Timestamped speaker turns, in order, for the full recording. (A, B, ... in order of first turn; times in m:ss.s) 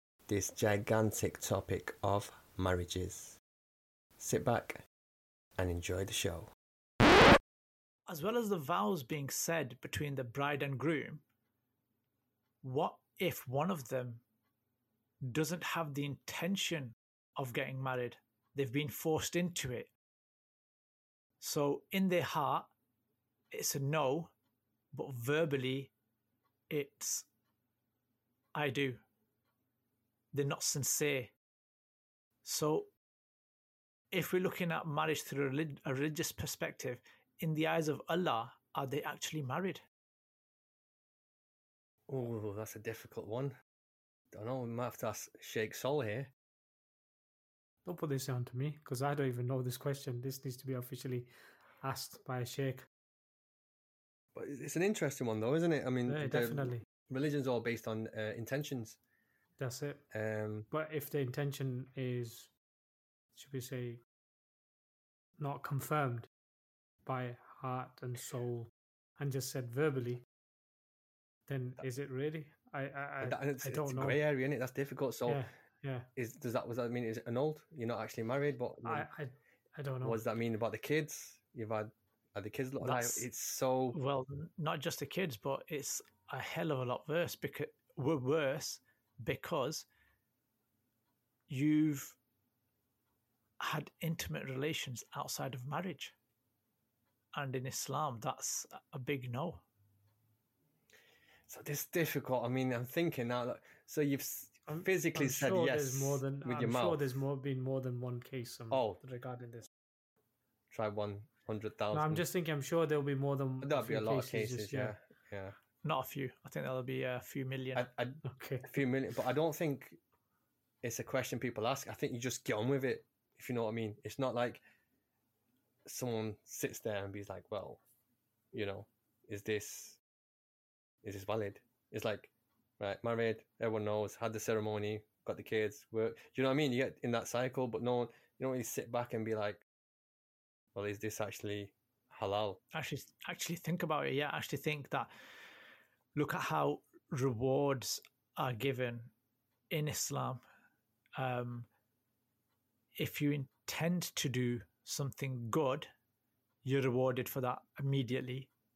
0:00.3-0:03.3 A
0:04.2-0:04.8 A
0:05.6-0:06.4 A
0:08.1-0:11.2 B
0:12.6-0:14.2 B
0:15.2-0:19.9 B
0:21.4-0:22.7 B
0:23.5-0:24.3 B
0:24.9-0:25.9 B
0:26.7-0:27.3 B
0:28.5-0:29.0 B
0:30.3-0:31.3 B
0:32.4-0:32.9 B
0:34.1-0:39.8 B
0:42.1-0:43.6 A
0:44.3-0:46.3 A
0:47.8-0:51.3 C
0:51.8-0:52.9 C
0:54.3-0:59.0 A
0:56.1-0:56.8 C
0:59.6-1:00.0 C
1:00.1-1:00.7 A
1:00.7-1:02.5 C
1:03.3-1:04.0 C
1:05.4-1:06.3 C
1:07.0-1:10.2 C
1:11.5-1:14.2 C
1:13.2-1:15.4 A
1:15.3-1:16.1 C
1:16.2-1:19.1 A
1:18.8-1:20.2 C
1:20.0-1:24.0 A
1:22.8-1:23.2 B
1:23.9-1:29.9 B
1:31.5-1:32.2 B
1:33.6-1:36.1 B
1:37.3-1:39.6 B
1:41.5-1:47.1 A
1:44.7-1:49.7 C
1:48.7-1:49.0 A
1:50.7-1:52.2 A
1:51.9-1:54.9 C
1:53.6-1:55.6 A
1:55.8-1:57.9 B
1:57.8-2:00.0 A
1:58.2-1:58.8 C
2:00.8-2:04.6 A
2:05.9-2:07.8 A
2:08.5-2:10.0 A
2:11.0-2:19.6 A
2:20.8-2:22.6 A
2:22.7-2:25.1 B
2:26.1-2:29.1 B
2:29.7-2:30.4 B
2:31.2-2:31.7 B
2:32.9-2:35.9 B
2:36.6-2:38.5 B